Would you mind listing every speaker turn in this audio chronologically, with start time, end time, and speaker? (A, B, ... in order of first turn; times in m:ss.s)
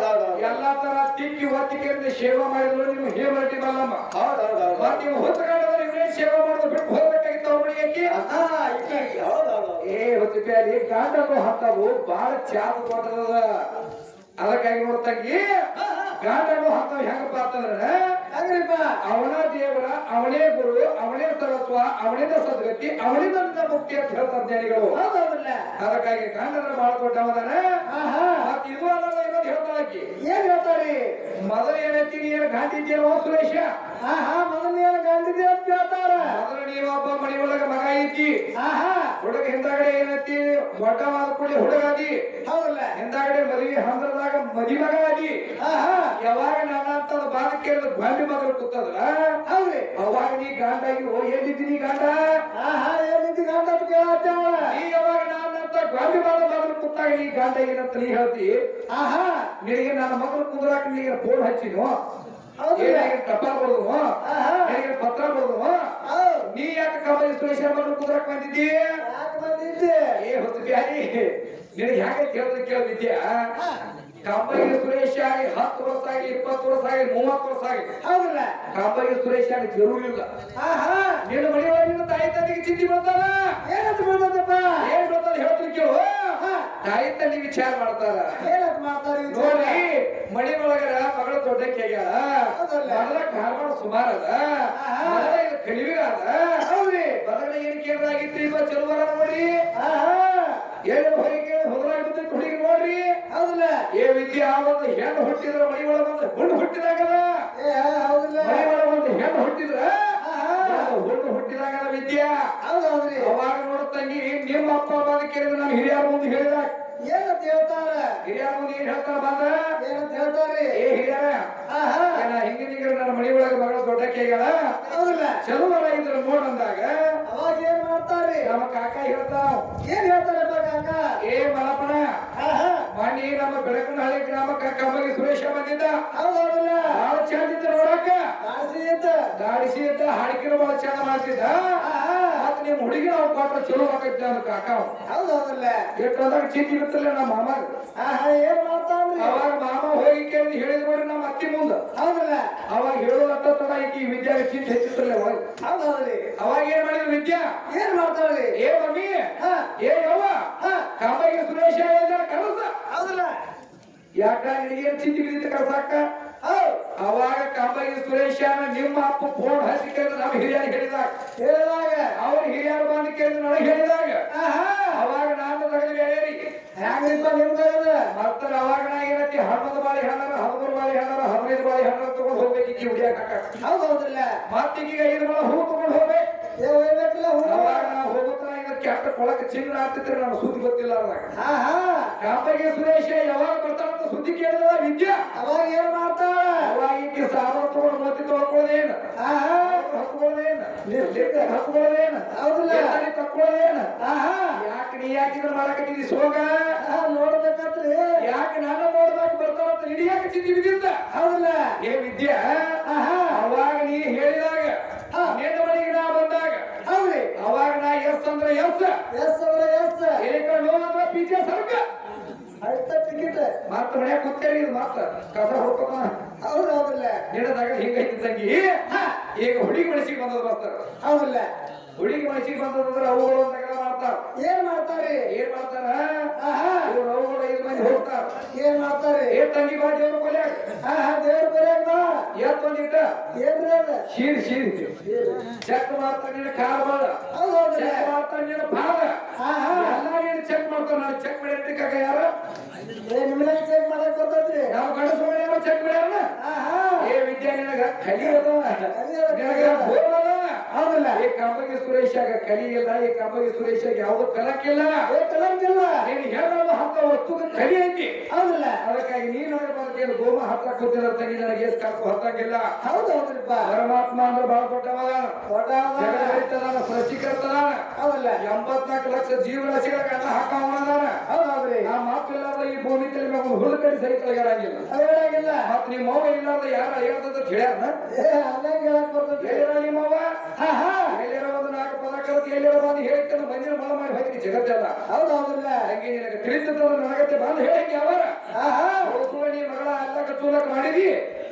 0:00.3-0:04.0 A
0:04.7-0:08.2 A
0:08.1-0:09.7 B
0:09.8-0:13.7 A
0:14.4-0:15.6 A
0:16.2-0:18.2 A
0:18.3-0:19.0 B
0:19.0-0:25.0 A
0:24.9-0:25.7 B
0:25.8-0:27.7 A
0:27.9-0:28.5 B
0:28.4-0:30.1 A
0:30.2-0:31.2 B
0:31.4-0:33.7 A
0:34.0-0:36.4 B
0:36.2-0:38.3 A
0:38.6-0:39.2 B
0:39.2-0:42.2 A
0:42.4-0:43.0 B
0:42.9-0:45.4 A
0:45.6-0:46.2 B
0:46.2-0:49.4 A
0:49.4-0:49.9 B
0:49.9-0:52.4 A
0:52.5-0:54.8 B
0:54.6-0:58.6 A
0:58.9-0:59.5 B
0:59.6-1:02.0 A
1:02.6-1:03.1 B
1:02.8-1:04.1 A
1:04.2-1:04.8 B
1:04.6-1:05.8 A
1:06.0-1:06.5 B
1:06.5-1:08.9 A
1:09.0-1:10.2 B
1:10.2-1:13.5 A
1:14.2-1:17.9 A
1:18.0-1:18.6 B
1:18.7-1:20.3 A
1:20.6-1:21.2 B
1:21.2-1:23.6 A
1:23.6-1:24.8 B
1:24.8-1:28.5 A
1:26.4-1:26.7 B
1:28.4-1:29.8 B
1:29.3-1:36.6 A
1:32.5-1:33.1 B
1:34.7-1:35.3 B
1:36.6-1:37.2 B
1:37.2-1:39.6 A
1:39.8-1:40.6 B
1:40.8-1:43.1 A
1:43.3-1:43.8 B
1:43.9-1:47.4 A
1:47.6-1:48.7 B
1:48.4-1:52.5 A
1:50.2-1:50.9 B
1:52.6-1:53.3 B
1:53.2-1:56.7 A
1:57.1-1:58.1 B
1:58.2-1:59.7 A
1:59.8-2:00.8 B
2:00.7-2:01.5 A
2:01.7-2:02.2 B
2:02.1-2:04.9 A
2:04.9-2:05.4 B
2:05.4-2:07.2 A
2:07.2-2:08.5 B
2:08.4-2:09.7 A
2:09.8-2:11.0 B
2:11.2-2:12.1 A
2:12.4-2:12.9 B
2:12.9-2:16.0 A
2:16.1-2:17.0 B
2:16.8-2:18.2 A
2:18.4-2:19.2 B
2:19.4-2:21.8 A
2:21.8-2:22.5 B
2:22.4-2:24.9 A
2:25.1-2:25.9 B
2:26.0-2:27.7 A
2:28.0-2:29.4 B
2:29.1-2:31.8 A
2:31.9-2:32.6 B
2:32.7-2:35.4 A
2:35.6-2:36.3 B
2:36.4-2:37.5 A
2:37.7-2:38.6 B
2:38.6-2:42.7 A
2:39.4-2:39.7 B
2:40.6-2:40.9 B
2:42.9-2:43.3 B
2:44.2-2:46.0 A
2:46.4-2:46.8 B
2:47.0-2:51.1 A
2:51.4-2:52.2 B
2:52.1-2:54.2 A
2:54.3-2:55.0 B
2:54.9-2:56.4 A
2:56.8-2:58.0 B
2:58.1-3:03.6 A
3:03.6-3:04.4 B
3:04.5-3:06.2 A
3:06.6-3:07.9 B
3:07.4-3:11.3 A
3:11.4-3:12.1 B
3:12.2-3:15.2 A
3:15.4-3:16.7 B
3:16.6-3:19.0 A
3:19.2-3:19.8 B
3:19.6-3:23.9 A
3:20.9-3:21.5 B
3:22.3-3:23.0 B
3:24.0-3:24.6 B
3:24.6-3:26.8 A
3:26.8-3:28.2 B
3:28.2-3:31.0 A
3:31.1-3:31.7 B
3:31.8-3:36.6 A
3:32.8-3:33.4 B
3:36.8-3:37.3 B
3:37.4-3:38.9 A
3:39.1-3:40.2 B
3:40.2-3:41.8 A
3:42.6-3:43.5 B
3:43.7-3:46.1 A
3:46.4-3:47.2 B
3:47.3-3:48.8 A
3:48.9-3:49.2 B
3:49.4-3:50.8 A
3:51.0-3:51.5 B
3:52.0-3:54.2 A
3:54.4-3:55.3 B
3:55.3-3:56.3 A
3:56.4-3:56.9 B
3:56.8-3:58.3 A
3:58.5-3:59.4 B
3:59.3-4:00.6 A
4:00.8-4:02.3 B
4:02.3-4:03.1 A
4:03.4-4:04.0 B
4:04.1-4:04.9 A
4:05.0-4:05.4 B
4:05.6-4:07.2 A
4:07.3-4:08.1 B
4:07.7-4:09.2 A
4:09.4-4:10.0 B
4:09.7-4:12.3 A
4:13.0-4:14.7 B
4:14.7-4:16.3 A
4:16.4-4:17.1 B
4:17.0-4:20.6 A
4:18.9-4:19.9 B
4:20.7-4:21.2 B
4:21.1-4:25.0 A
4:25.1-4:26.1 B
4:26.0-4:28.2 A
4:28.3-4:28.8 B
4:28.8-4:32.7 A
4:32.8-4:33.7 B
4:33.6-4:35.4 A
4:35.5-4:36.4 B
4:36.0-4:37.8 A
4:38.0-4:38.4 B
4:38.4-4:41.2 A
4:41.3-4:41.9 B
4:41.8-4:44.9 A
4:44.9-4:45.7 B
4:45.6-4:47.9 A
4:48.1-4:49.7 B
4:49.4-4:50.3 A
4:50.6-4:51.2 B
4:51.1-4:55.0 A
4:55.1-4:55.9 B
4:55.8-4:58.3 A
4:58.5-4:59.2 B
4:59.0-5:01.2 A